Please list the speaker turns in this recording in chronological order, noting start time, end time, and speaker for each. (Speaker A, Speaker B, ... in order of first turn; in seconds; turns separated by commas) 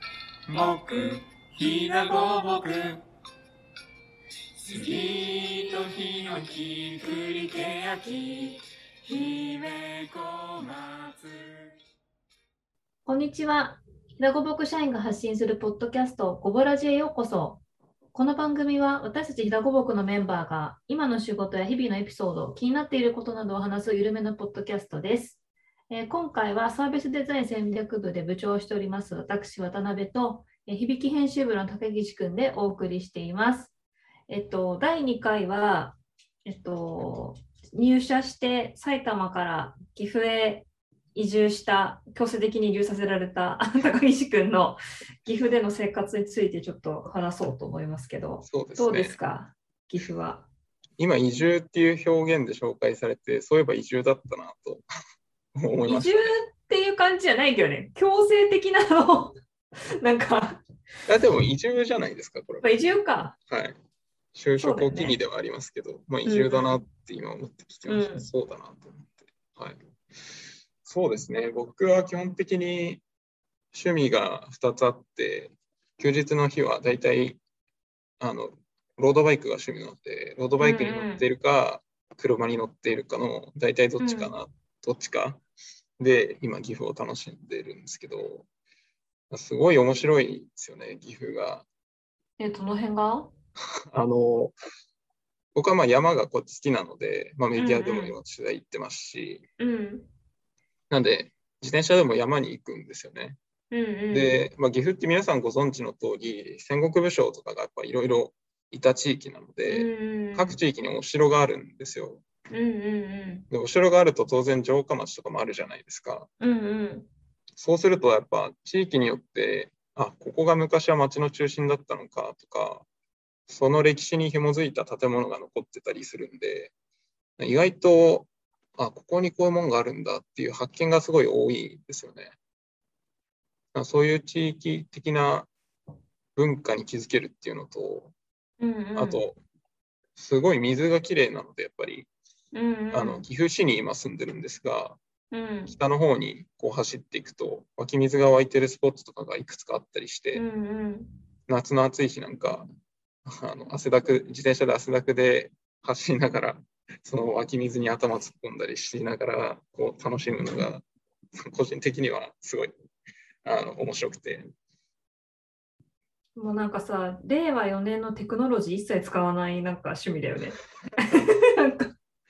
Speaker A: 0.5-3.0, Speaker A: 4.6-11.7, Speaker B: 13.1-17.6, Speaker B: 18.1-33.7, Speaker B: 34.3-50.5, Speaker C: 48.5-49.2, Speaker C: 51.0-54.9, Speaker C: 55.5-56.4, Speaker B: 55.9-59.4, Speaker B: 60.0-60.6, Speaker C: 61.1-62.7, Speaker B: 62.6-63.4, Speaker C: 63.5-63.8, Speaker C: 64.3-69.8, Speaker B: 64.6-65.2, Speaker B: 66.2-66.8, Speaker B: 67.9-68.3, Speaker C: 70.8-73.0, Speaker C: 73.7-77.4, Speaker C: 78.2-85.4, Speaker B: 80.6-81.3, Speaker B: 84.0-84.3, Speaker C: 86.0-88.5, Speaker C: 89.3-91.7, Speaker B: 92.4-93.3, Speaker C: 93.9-94.6, Speaker C: 95.5-99.5, Speaker B: 97.6-98.2, Speaker B: 99.6-100.1, Speaker C: 100.9-103.4, Speaker B: 103.7-104.5, Speaker C: 104.1-112.2, Speaker B: 109.7-110.6, Speaker B: 112.5-113.5, Speaker C: 113.5-116.3, Speaker B: 116.4-117.1, Speaker C: 117.6-122.9, Speaker C: 123.5-126.7, Speaker C: 127.4-132.3, Speaker C: 133.7-135.5, Speaker C: 136.4-138.1, Speaker B: 138.6-139.2, Speaker C: 138.9-139.4, Speaker C: 140.2-142.1, Speaker B: 142.5-143.3, Speaker C: 142.9-145.0, Speaker B: 145.3-145.8, Speaker C: 145.7-150.4, Speaker B: 150.3-151.1, Speaker C: 151.5-152.7, Speaker C: 153.3-160.8, Speaker C: 161.4-162.7, Speaker C: 163.4-164.5, Speaker B: 166.4-171.9